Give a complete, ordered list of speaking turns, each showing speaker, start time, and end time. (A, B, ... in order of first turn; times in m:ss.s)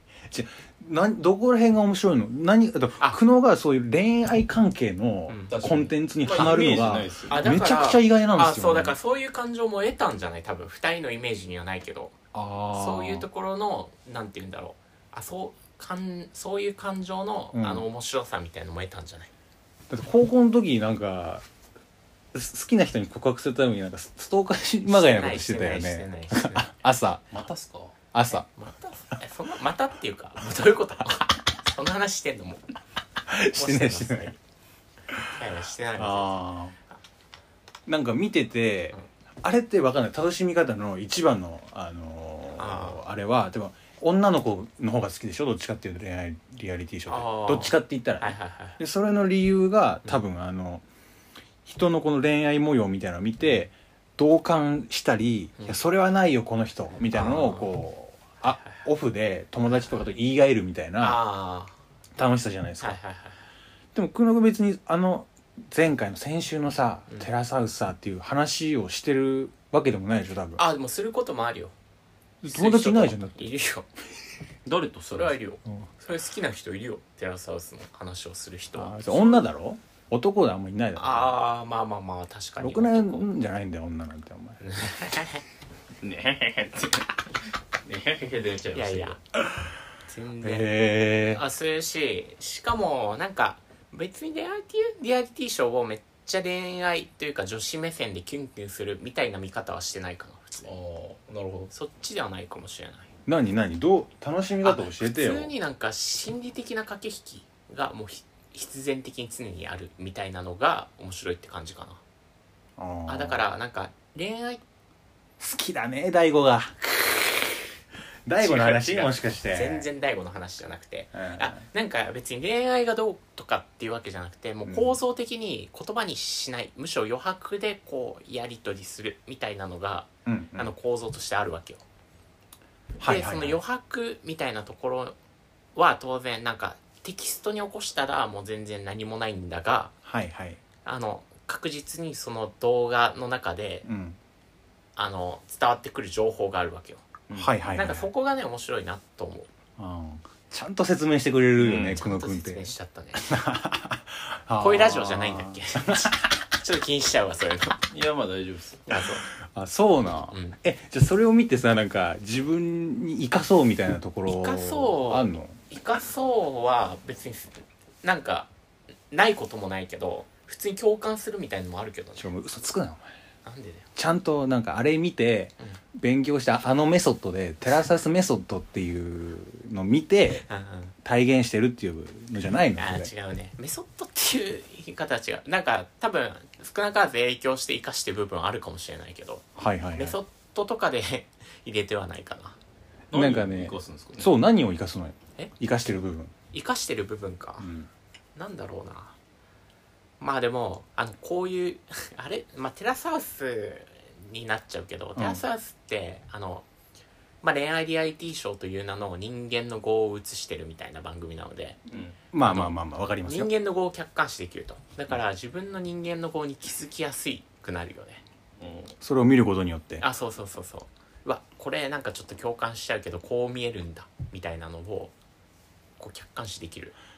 0:00.3-0:09.0 A
0:05.3-0:05.6 B
0:05.5-0:07.6 C
0:06.2-0:12.2 B
0:12.3-0:13.3 A
0:12.7-0:19.3 B
0:17.5-0:17.8 A
0:19.9-0:21.4 A
0:22.3-0:27.3 A
0:24.9-0:26.7 B
0:27.3-0:27.9 C
0:28.1-0:28.5 A
0:28.3-0:32.6 B
0:33.2-0:34.3 A
0:33.5-0:34.4 B
0:35.1-0:35.3 A
0:35.3-0:36.5 B
0:35.9-0:36.8 A
0:37.9-0:50.8 A
0:42.6-0:43.0 B
0:47.1-0:48.8 B
0:51.6-1:01.2 A
0:57.1-0:57.7 B
0:58.4-0:58.8 B
1:01.0-1:01.7 B
1:02.2-1:03.0 A
1:02.8-1:03.4 B
1:03.9-1:10.6 A
1:10.6-1:11.7 B
1:12.4-1:13.5 A
1:12.5-1:13.8 B
1:14.6-1:15.4 C
1:15.1-1:19.4 B
1:18.7-1:21.3 A
1:21.0-1:23.3 B
1:22.6-1:24.6 A
1:24.6-1:25.4 B
1:26.0-1:27.1 C
1:27.8-1:29.2 C
1:28.7-1:29.2 B
1:30.1-1:30.8 B
1:30.4-1:31.4 A
1:31.3-1:40.7 B
1:40.6-1:41.7 C
1:41.7-1:43.1 B
1:43.2-1:45.5 A
1:44.6-1:52.0 B
1:52.8-1:53.4 A
1:53.1-1:54.6 B
1:55.4-1:57.7 A
1:58.2-1:59.8 A
1:58.4-2:11.8 B
2:01.1-2:01.6 A
2:04.6-2:05.0 A
2:10.2-2:10.7 A
2:13.0-2:13.6 A
2:13.0-2:15.2 B
2:15.7-2:19.9 B
2:20.0-2:20.6 A
2:20.8-2:23.9 B
2:23.8-2:24.2 A
2:25.0-2:29.5 B
2:27.3-2:28.1 A
2:29.8-2:36.2 A
2:31.6-2:32.0 C
2:31.7-2:33.3 B
2:34.6-2:37.8 B
2:37.9-2:38.8 C
2:38.9-2:39.3 B
2:39.5-2:45.6 A
2:40.3-2:40.6 B
2:44.3-2:48.5 B
2:49.1-2:52.3 B
2:52.2-2:53.1 A
2:53.4-2:53.9 B
2:54.0-3:00.4 A
3:00.4-3:00.9 B
3:01.0-3:03.1 A
3:02.8-3:12.6 B
3:09.6-3:10.2 A
3:13.1-3:14.3 C
3:13.1-3:16.3 A
3:16.5-3:17.7 B
3:17.6-3:17.9 A
3:18.3-3:19.1 B
3:20.2-3:26.6 B
3:25.2-3:25.4 A
3:27.4-3:31.8 B
3:31.9-3:32.2 C
3:32.3-3:33.5 A
3:32.4-3:38.2 B
3:38.6-3:38.9 C
3:39.0-3:40.0 A
3:40.0-3:45.1 B
3:46.0-3:46.9 B